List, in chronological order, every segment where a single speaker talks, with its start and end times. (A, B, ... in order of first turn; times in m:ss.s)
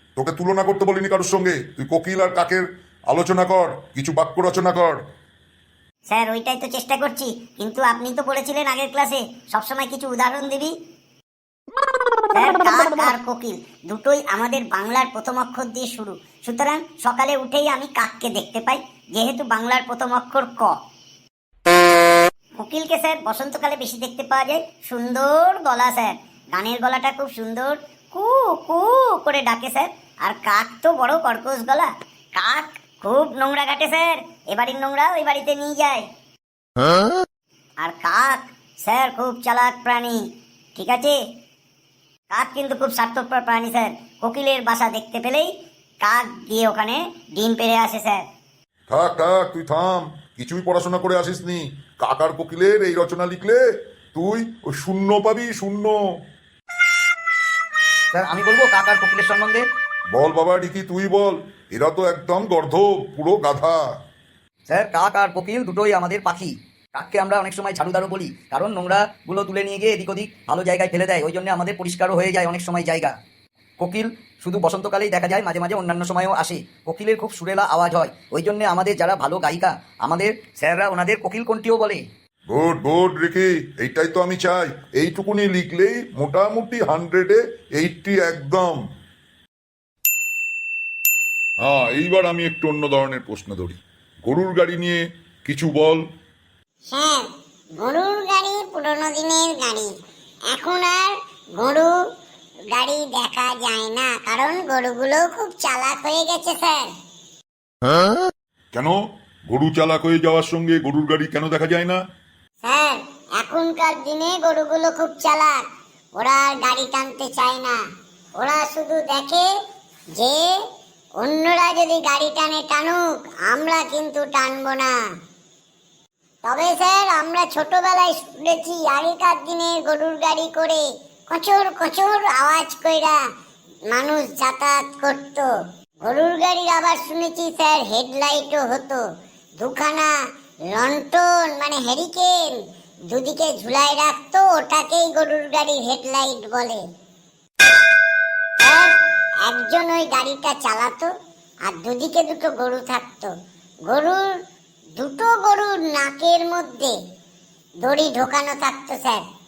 0:00.2-0:05.0 A
0:06.1-0:10.7 B
0:12.3-0:20.7 B
0:22.6-0:36.0 B
0:37.8-0:40.2 B
0:40.8-0:41.1 B
0:42.3-0:45.5 B
0:46.0-0:48.2 B
0:48.9-0:53.6 A
0:54.1-0:56.0 A
0:58.1-0:59.6 C
1:00.1-1:03.8 A
1:04.7-1:13.1 C
1:13.8-1:22.0 C
1:22.5-1:28.8 A
1:31.6-1:36.0 A
1:36.9-1:39.9 D
1:40.5-1:41.9 D
1:42.7-1:46.9 D
1:48.7-1:52.0 A
1:52.6-1:55.6 D
1:56.2-1:57.8 D
1:58.4-1:59.5 D
2:00.1-2:00.5 D
2:01.2-2:04.9 D
2:06.4-2:13.2 D
2:13.9-2:15.5 D
2:16.0-2:19.0 D
2:19.6-2:20.1 D
2:20.7-2:26.8 D
2:28.6-2:31.1 D
2:31.6-2:33.3 D
2:33.9-2:34.3 D
2:35.0-2:36.9 D
2:37.8-2:39.2 D